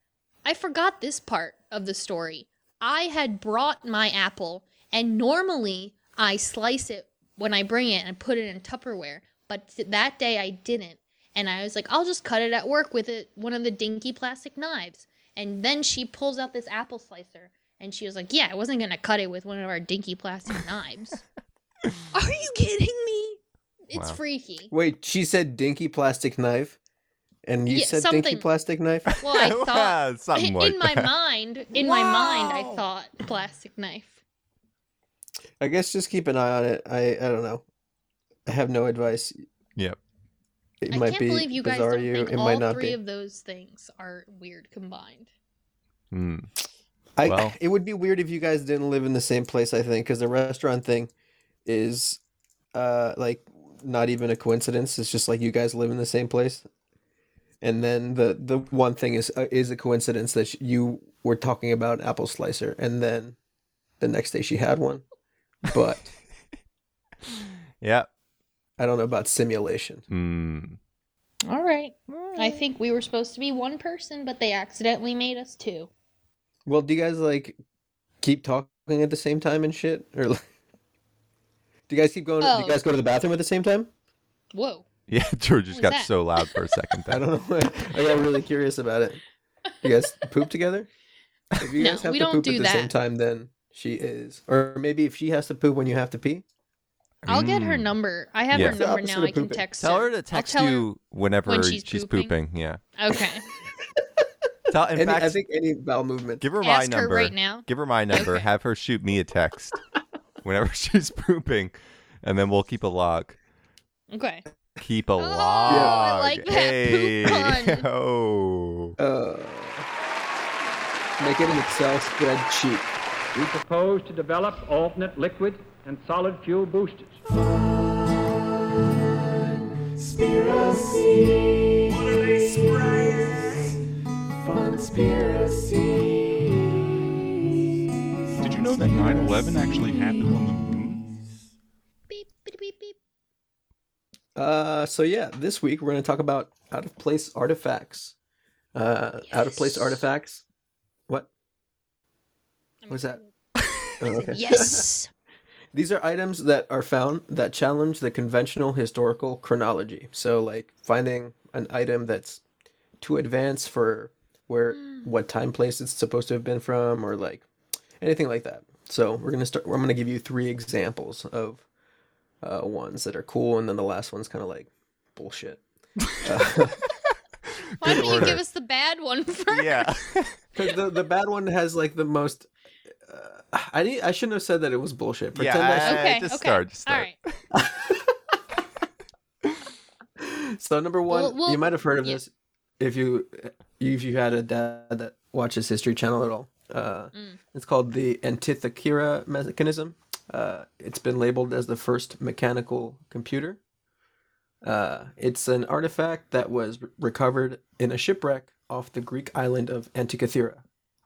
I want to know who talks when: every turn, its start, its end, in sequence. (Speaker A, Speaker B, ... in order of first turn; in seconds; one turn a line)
Speaker A: 0.5-21.2
Speaker A: 22.1-24.7
Speaker B: 23.9-24.2
Speaker C: 24.7-26.8
Speaker C: 27.4-29.1
Speaker A: 27.7-28.5
Speaker B: 29.1-31.1
Speaker A: 29.2-34.2
Speaker D: 31.8-32.8
Speaker C: 35.6-37.6
Speaker C: 38.5-39.4
Speaker C: 40.8-43.0
Speaker A: 40.9-45.3
Speaker B: 46.1-46.5
Speaker C: 47.2-51.1
Speaker B: 47.2-47.5
Speaker C: 51.6-52.2
Speaker C: 52.7-56.6
Speaker C: 57.6-63.4
Speaker C: 64.0-65.0
Speaker C: 65.6-66.1
Speaker B: 67.8-68.1
Speaker C: 68.8-70.0
Speaker B: 70.1-70.8
Speaker A: 71.5-75.9
Speaker B: 72.1-72.6
Speaker C: 76.7-77.6
Speaker C: 78.2-80.4
Speaker C: 81.9-83.9
Speaker A: 82.4-82.8
Speaker A: 84.5-84.9
Speaker B: 85.1-87.3
Speaker A: 85.7-86.7
Speaker C: 87.1-89.2
Speaker C: 89.8-90.9
Speaker C: 91.6-96.5
Speaker A: 91.8-92.9
Speaker B: 97.2-97.9
Speaker A: 97.3-100.9
Speaker B: 98.5-98.8
Speaker C: 98.5-99.6
Speaker B: 99.8-102.8
Speaker A: 101.5-102.3
Speaker A: 103.0-103.5
Speaker B: 104.7-105.4
Speaker C: 104.9-106.4
Speaker B: 106.4-109.8
Speaker A: 106.6-108.5
Speaker B: 110.4-113.4
Speaker A: 114.1-114.5
Speaker B: 114.8-119.0
Speaker A: 115.2-117.9
Speaker C: 115.7-116.0
Speaker C: 119.0-119.9
Speaker C: 121.2-123.0
Speaker E: 123.3-127.1
Speaker D: 127.4-128.2
Speaker D: 130.0-133.8
Speaker D: 134.4-136.5
Speaker D: 138.4-141.0
Speaker A: 142.1-143.0
Speaker C: 144.3-148.2
Speaker C: 148.7-150.4
Speaker A: 149.3-150.0
Speaker A: 152.8-153.3
Speaker C: 152.9-153.2
Speaker C: 154.0-154.8
Speaker A: 154.2-155.1
Speaker C: 155.7-162.4
Speaker C: 163.0-167.5
Speaker A: 164.7-165.1
Speaker C: 168.0-171.7
Speaker C: 172.4-175.6
Speaker C: 176.2-176.8
Speaker A: 177.8-180.1
Speaker B: 177.8-178.4
Speaker B: 179.5-180.3
Speaker C: 180.6-182.5
Speaker C: 183.0-186.1
Speaker B: 185.3-187.3
Speaker A: 185.8-187.2
Speaker C: 187.5-188.4
Speaker C: 190.2-203.6
Speaker A: 191.1-192.2
Speaker A: 197.1-197.4
Speaker C: 204.6-210.6